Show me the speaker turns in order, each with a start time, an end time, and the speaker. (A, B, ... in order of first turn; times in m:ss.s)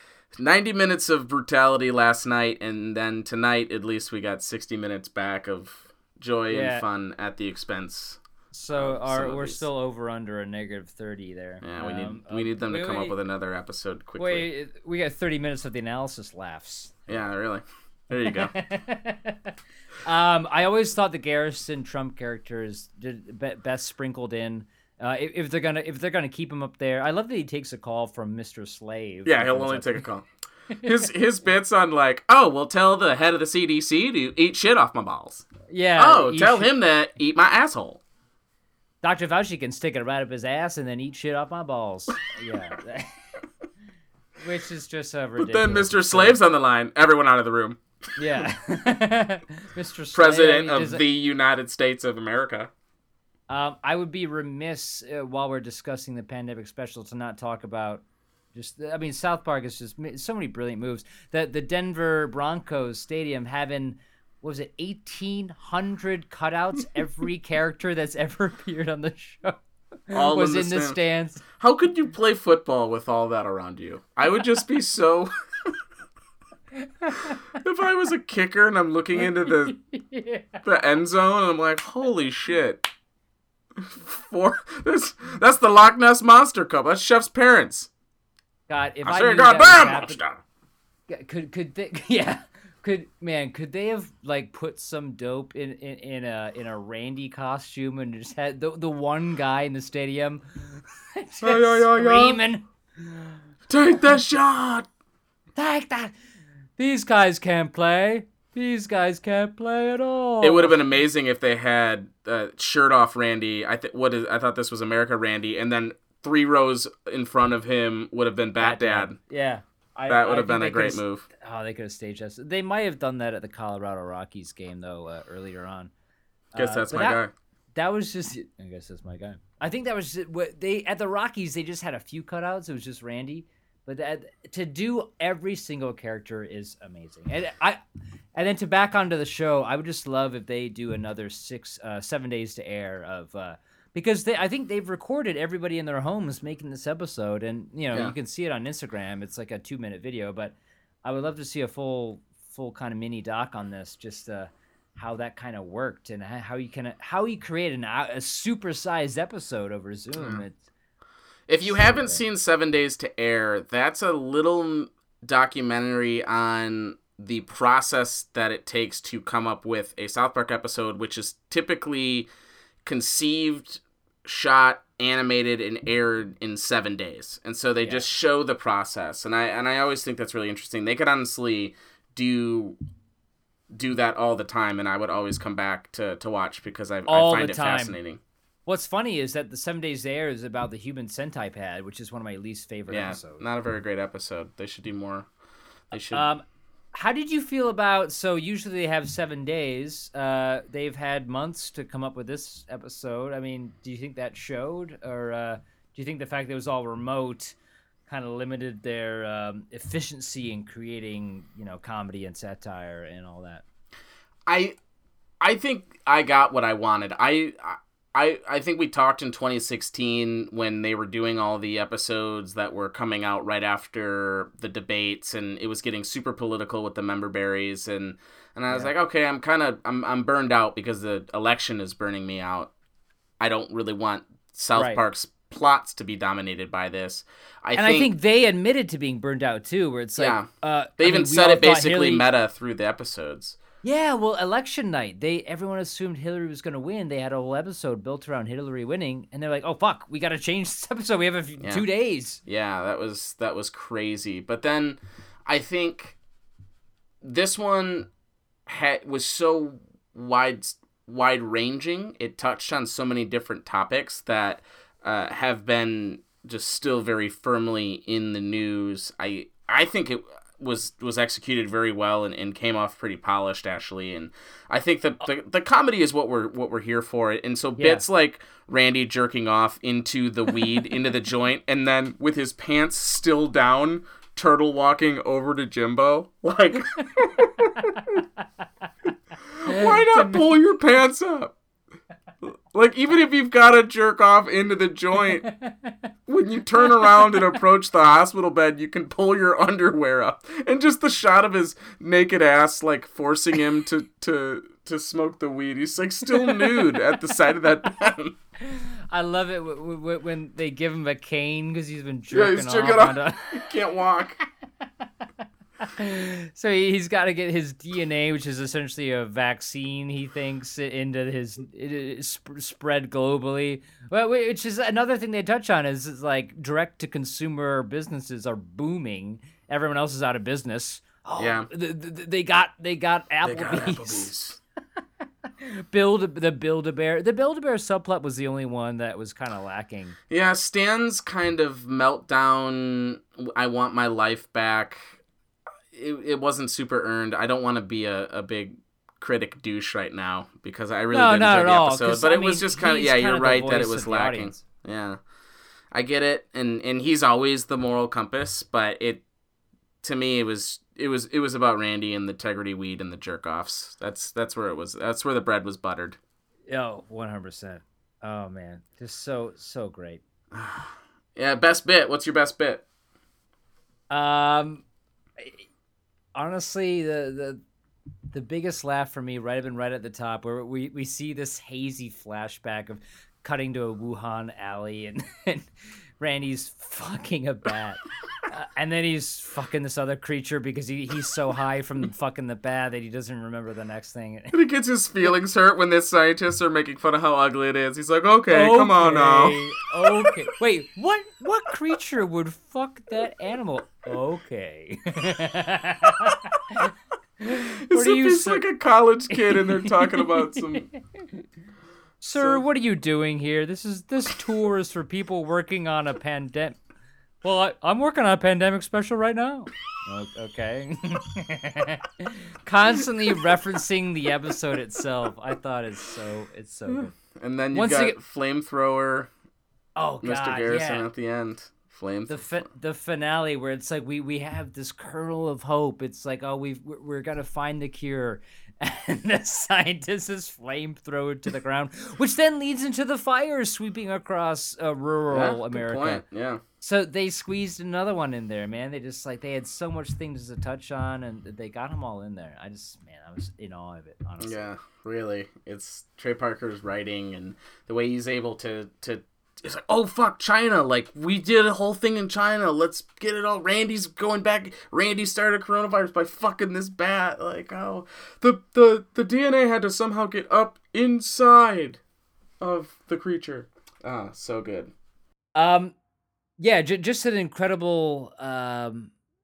0:00.3-0:08.2 A
0:06.5-0:06.8 B
0:08.5-0:13.2 B
0:08.7-0:09.6 A
0:11.6-0:14.5 A
0:14.2-0:16.9 B
0:17.1-0:18.5 A
0:18.2-0:19.5 B
0:20.0-0:30.0 B
0:29.2-0:30.3 A
0:30.8-0:38.0 A
0:35.7-0:36.7 B
0:39.0-0:43.2 B
0:44.4-0:46.4 B
0:45.4-0:47.8 A
0:48.2-0:51.0 B
0:50.1-0:52.7 A
0:53.5-1:09.6 B
1:10.1-1:11.4 B
1:10.1-1:11.0 A
1:11.6-1:15.7 A
1:17.0-1:17.4 B
1:17.5-1:19.8 A
1:19.9-1:20.6 B
1:20.6-1:22.9 A
1:23.8-1:27.9 A
1:28.7-1:30.2 B
1:29.0-1:30.4 A
1:31.1-1:43.1 B
1:41.4-1:42.4 A
1:43.7-1:44.9 A
1:45.6-1:46.1 B
1:46.8-1:50.8 B
1:50.4-1:59.2 A
1:58.6-2:05.9 B
2:00.1-2:01.3 A
2:06.5-2:07.2 B
2:06.6-2:07.3 A
2:07.8-2:17.8 B
2:18.4-2:40.6 B
2:40.2-2:40.4 A
2:41.5-2:52.3 A
2:41.6-2:42.2 B
2:52.8-3:02.8 A
3:03.7-3:08.2 A
3:07.1-3:08.0 B
3:08.7-3:13.4 B
3:12.9-3:15.3 A
3:15.9-3:16.3 A
3:16.1-3:27.6 B
3:28.1-3:33.6 B
3:34.5-3:34.8 A
3:35.4-3:52.7 A
3:53.4-3:58.1 A
3:54.7-3:55.0 B
3:57.8-4:02.3 B
4:00.2-4:03.6 A
4:03.8-4:12.4 B
4:11.6-4:11.9 A
4:12.4-4:16.2 A
4:17.2-4:18.1 A
4:18.7-4:48.2 A
4:37.8-4:38.0 B
4:49.5-4:51.6 A
4:49.7-4:50.5 B
4:52.4-4:55.5 A
4:55.4-4:56.0 B
4:56.3-5:08.4 A
5:08.7-5:13.6 B
5:12.3-5:14.4 A
5:15.8-5:34.3 B
5:31.4-5:31.7 A
5:33.4-5:34.6 A
5:35.6-5:40.2 B
5:40.3-5:45.2 A
5:45.9-5:55.2 A
5:51.1-5:54.6 B
5:55.9-5:59.2 A
6:00.0-6:06.2 A
6:06.7-6:10.2 B
6:10.5-6:12.8 A
6:14.1-6:14.8 B
6:15.4-6:15.7 B
6:16.4-6:17.6 B
6:18.3-6:25.7 B
6:26.2-6:34.5 B
6:34.5-6:39.6 A
6:38.5-6:48.6 B
6:47.9-6:50.9 A
6:49.3-6:51.4 B
6:52.2-6:56.8 B
6:52.3-6:52.6 A
6:57.4-7:07.2 B
7:06.9-7:09.3 A
7:07.7-7:08.2 B
7:10.0-7:11.1 B
7:10.2-7:12.5 A
7:12.3-7:26.2 B
7:25.3-7:26.6 A
7:26.8-7:34.6 B
7:34.4-7:52.0 A
7:52.6-7:54.9 A
7:55.6-7:55.9 B
7:56.6-7:59.1 B